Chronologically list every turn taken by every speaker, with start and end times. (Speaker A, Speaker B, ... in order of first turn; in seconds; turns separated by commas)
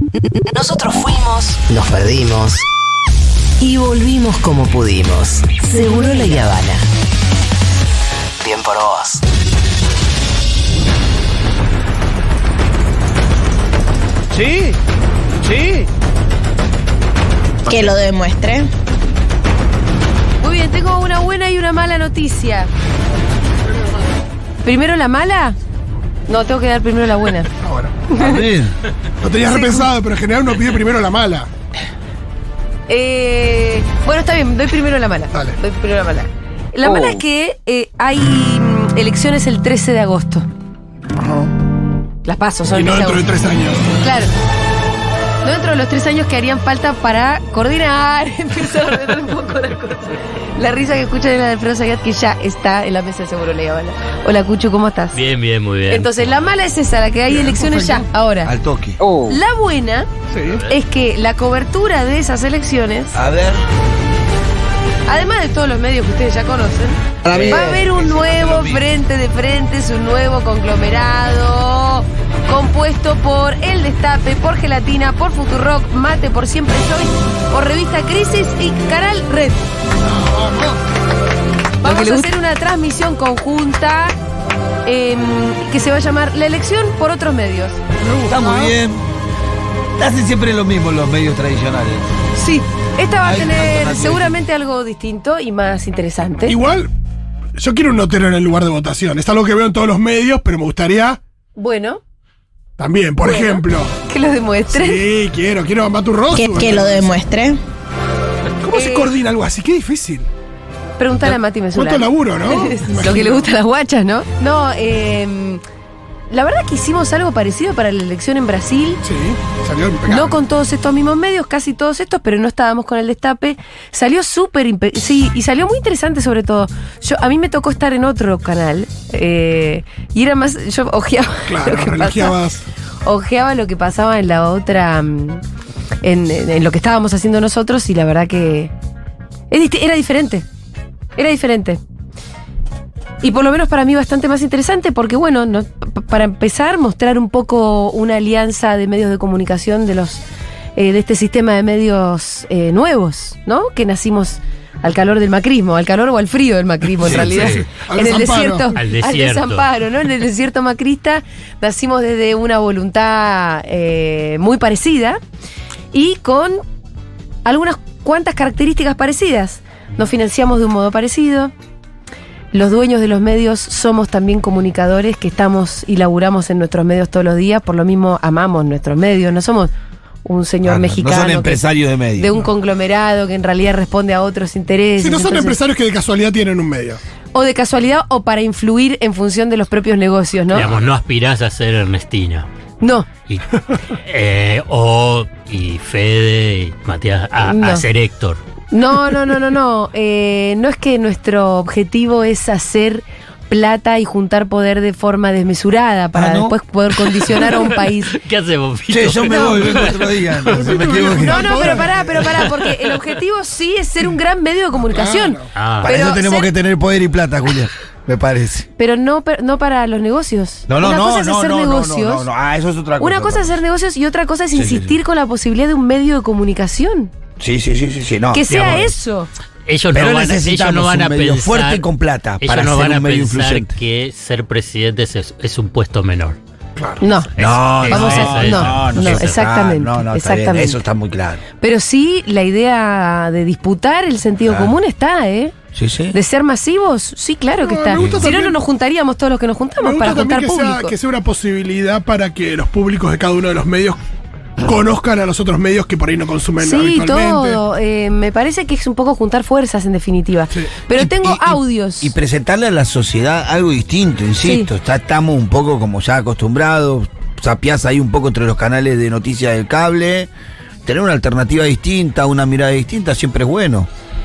Speaker A: 0.5-2.6, Speaker A: 3.6-6.8, Speaker A: 8.4-9.2, Speaker B: 17.6-18.7, Speaker C: 20.4-22.7, Speaker C: 24.6-25.6, Speaker C: 26.3-27.5, Speaker D: 27.6-28.0, Speaker C: 28.1-28.4, Speaker E: 28.1-28.7, Speaker D: 29.2-31.5, Speaker C: 29.4-29.9, Speaker C: 32.9-40.5, Speaker D: 35.3-35.6, Speaker C: 42.2-43.2, Speaker D: 42.7-43.8, Speaker C: 44.0-44.3, Speaker C: 45.4-55.2, Speaker F: 55.1-56.5, Speaker C: 55.9-58.5, Speaker D: 57.3-58.0, Speaker E: 58.4-59.0, Speaker C: 59.2-60.1, Speaker D: 60.3-60.6, Speaker F: 60.4-60.8, Speaker C: 60.7-63.1, Speaker E: 63.1-63.6, Speaker C: 65.1-79.7, Speaker E: 67.2-68.8, Speaker D: 80.0-80.8, Speaker C: 81.8-84.1, Speaker C: 84.8-87.8, Speaker D: 88.0-88.7, Speaker E: 88.3-89.0, Speaker E: 90.0-92.1, Speaker C: 92.3-96.6, Speaker E: 93.2-94.4, Speaker D: 96.4-96.9, Speaker D: 97.6-101.2, Speaker C: 101.5-102.0, Speaker D: 102.8-103.9, Speaker C: 103.2-105.0, Speaker D: 104.7-107.1, Speaker B: 106.3-107.6, Speaker D: 108.6-110.3, Speaker C: 108.7-109.1, Speaker C: 111.0-115.6, Speaker D: 111.2-113.5, Speaker C: 116.3-119.0, Speaker D: 119.0-120.4, Speaker C: 120.1-132.3, Speaker D: 131.5-132.6, Speaker C: 133.0-135.4, Speaker C: 136.0-138.7, Speaker C: 139.5-140.4, Speaker C: 141.2-141.8, Speaker C: 143.2-150.2, Speaker C: 150.8-165.2, Speaker F: 157.1-157.6, Speaker D: 157.5-158.7, Speaker F: 158.7-159.7, Speaker C: 165.9-166.6, Speaker C: 167.4-171.5, Speaker C: 172.5-179.7, Speaker C: 180.2-181.6, Speaker E: 180.6-182.3, Speaker C: 182.2-185.6, Speaker D: 185.0-187.0, Speaker C: 187.3-190.7, Speaker F: 190.5-192.5, Speaker C: 192.8-193.1, Speaker F: 193.3-198.4, Speaker C: 197.4-197.8, Speaker C: 198.7-208.1, Speaker E: 206.1-206.6, Speaker F: 207.5-210.8, Speaker E: 208.9-211.6, Speaker C: 209.3-209.6, Speaker D: 210.6-212.2, Speaker C: 211.0-216.5, Speaker D: 214.9-215.5, Speaker F: 215.5-215.9, Speaker E: 215.8-218.7, Speaker C: 218.8-222.3, Speaker E: 220.7-223.6, Speaker C: 223.0-227.1, Speaker E: 224.5-225.0, Speaker E: 227.4-228.8, Speaker C: 228.3-229.3, Speaker F: 228.5-228.9, Speaker F: 229.7-231.9, Speaker E: 229.9-233.8, Speaker F: 232.4-236.4, Speaker C: 237.0-237.3, Speaker F: 237.3-239.4, Speaker E: 237.4-241.4, Speaker C: 237.8-240.8, Speaker C: 241.6-245.5, Speaker E: 244.4-244.8, Speaker E: 245.7-246.2, Speaker C: 246.1-250.9, Speaker D: 247.6-248.6, Speaker E: 248.0-248.2, Speaker D: 249.8-254.0, Speaker D: 254.6-257.6, Speaker C: 256.6-262.1, Speaker E: 260.9-270.3, Speaker C: 264.4-264.7, Speaker E: 270.9-273.9